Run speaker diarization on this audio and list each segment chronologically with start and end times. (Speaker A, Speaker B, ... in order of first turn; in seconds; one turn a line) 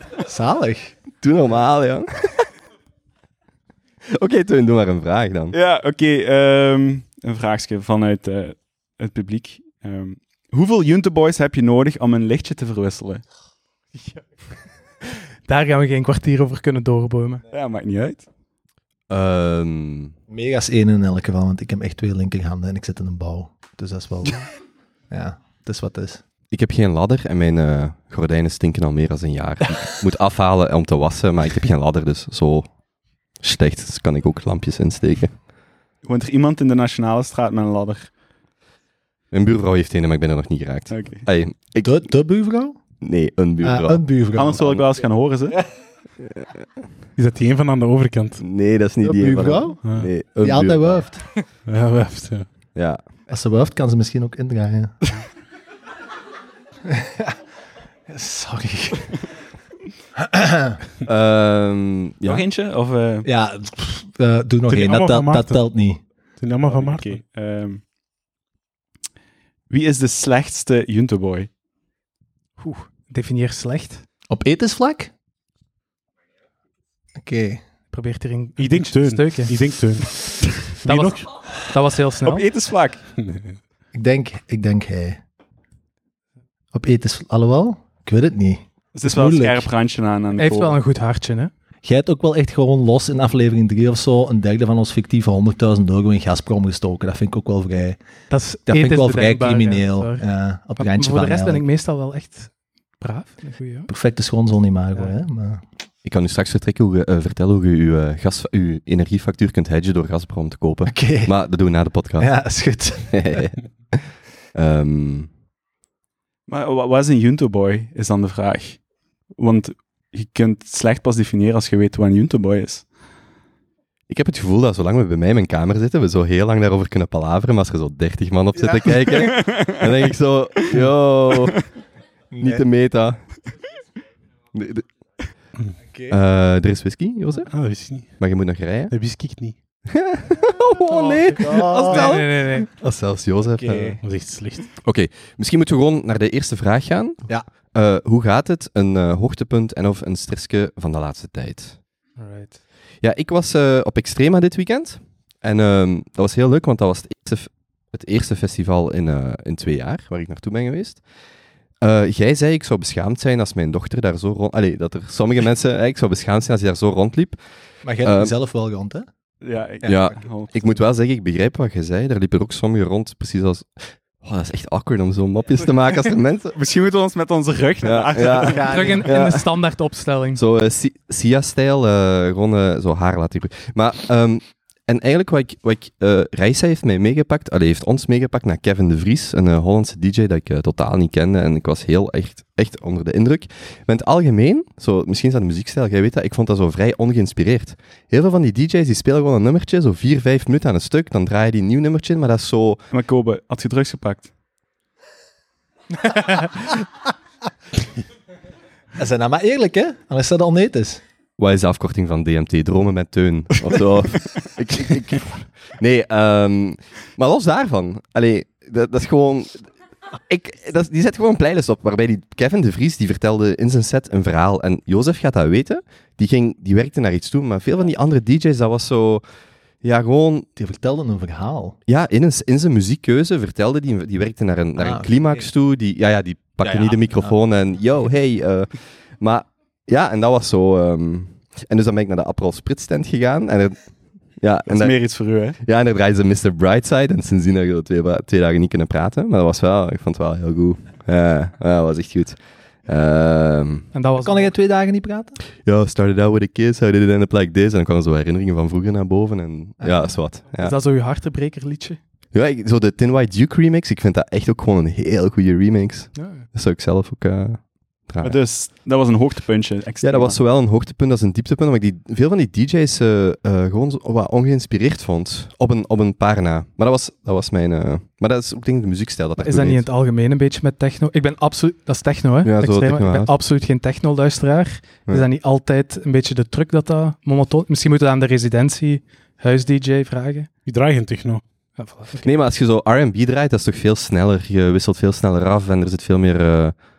Speaker A: 0.2-0.9
Speaker B: 1.2-2.5
Speaker B: 4.1-5.5
Speaker C: 5.5-13.2
Speaker D: 15.5-17.4
Speaker C: 17.5-18.3
Speaker B: 19.1-20.1
Speaker A: 20.3-24.5
Speaker A: 25.1-26.2
Speaker B: 26.5-32.7
Speaker B: 33.4-35.3
Speaker C: 36.0-38.1
Speaker B: 39.3-42.1
Speaker C: 40.9-41.3
Speaker A: 41.8-42.8
Speaker B: 43.0-44.0
Speaker A: 43.6-44.8
Speaker C: 44.4-45.6
Speaker B: 46.2-46.6
Speaker E: 47.2-48.4
Speaker B: 48.4-51.0
Speaker A: 49.0-49.8
Speaker A: 50.4-51.2
Speaker E: 51.7-52.5
Speaker B: 52.8-53.0
Speaker A: 53.3-55.0
Speaker A: 56.9-57.4
Speaker A: 58.1-59.1
Speaker A: 60.2-60.8
Speaker B: 61.0-62.4
Speaker C: 62.2-63.3
Speaker A: 63.2-66.0
Speaker E: 64.7-65.6
Speaker E: 66.4-67.2
Speaker C: 66.7-67.8
Speaker C: 69.7-71.5
Speaker D: 72.6-74.0
Speaker A: 74.3-75.1
Speaker A: 77.2-77.6
Speaker D: 77.9-79.5
Speaker E: 78.6-81.3
Speaker D: 80.8-82.5
Speaker C: 82.2-83.0
Speaker E: 83.2-83.6
Speaker A: 83.9-85.2
Speaker A: 86.7-89.4
Speaker C: 89.0-90.8
Speaker E: 89.1-89.5
Speaker D: 90.4-91.5
Speaker A: 91.8-98.0
Speaker D: 98.3-100.2
Speaker A: 98.7-101.6
Speaker D: 100.8-103.9
Speaker A: 103.9-105.6
Speaker B: 106.0-112.3
Speaker A: 110.9-111.3
Speaker A: 112.2-113.4
Speaker B: 113.1-115.3
Speaker C: 116.5-118.8
Speaker C: 119.4-122.8
Speaker B: 124.1-131.6
Speaker A: 128.6-129.1
Speaker C: 129.1-130.0
Speaker A: 132.3-132.6
Speaker B: 132.4-133.2
Speaker B: 134.5-134.9
Speaker A: 135.9-136.2
Speaker B: 136.1-137.5
Speaker E: 137.5-138.2
Speaker B: 138.2-138.9
Speaker E: 138.9-139.6
Speaker B: 139.9-144.0
Speaker D: 140.9-142.7
Speaker A: 141.3-142.2
Speaker A: 143.6-144.0
Speaker E: 144.0-144.7
Speaker B: 144.8-151.8
Speaker D: 152.2-152.6
Speaker B: 153.0-161.0
Speaker B: 161.8-167.4
Speaker A: 167.8-169.1
Speaker B: 168.0-168.3
Speaker C: 169.4-170.8
Speaker A: 169.8-170.2
Speaker B: 169.8-173.7
Speaker B: 174.2-176.6
Speaker C: 176.6-178.8
Speaker B: 177.8-179.5
Speaker A: 178.4-179.1
Speaker D: 178.7-180.4
Speaker B: 180.3-202.8
Speaker C: 202.9-204.3
Speaker D: 206.1-206.5
Speaker A: 209.0-211.0
Speaker B: 211.4-219.7
Speaker B: 220.3-229.2
Speaker B: 229.8-230.5
Speaker A: 230.6-231.8
Speaker B: 231.9-243.8
Speaker A: 234.8-235.5
Speaker A: 236.6-237.3
Speaker B: 244.4-245.0
Speaker C: 244.7-245.6
Speaker B: 245.6-253.9
Speaker D: 253.9-254.5
Speaker A: 254.2-255.4
Speaker B: 255.7-260.8
Speaker A: 259.8-260.1
Speaker D: 260.6-262.0
Speaker B: 262.3-268.4
Speaker D: 266.1-266.4
Speaker C: 268.2-270.4
Speaker B: 270.0-279.8
Speaker D: 279.4-290.5
Speaker B: 282.4-283.3
Speaker E: 290.7-291.4
Speaker D: 291.8-292.3
Speaker B: 292.2-296.8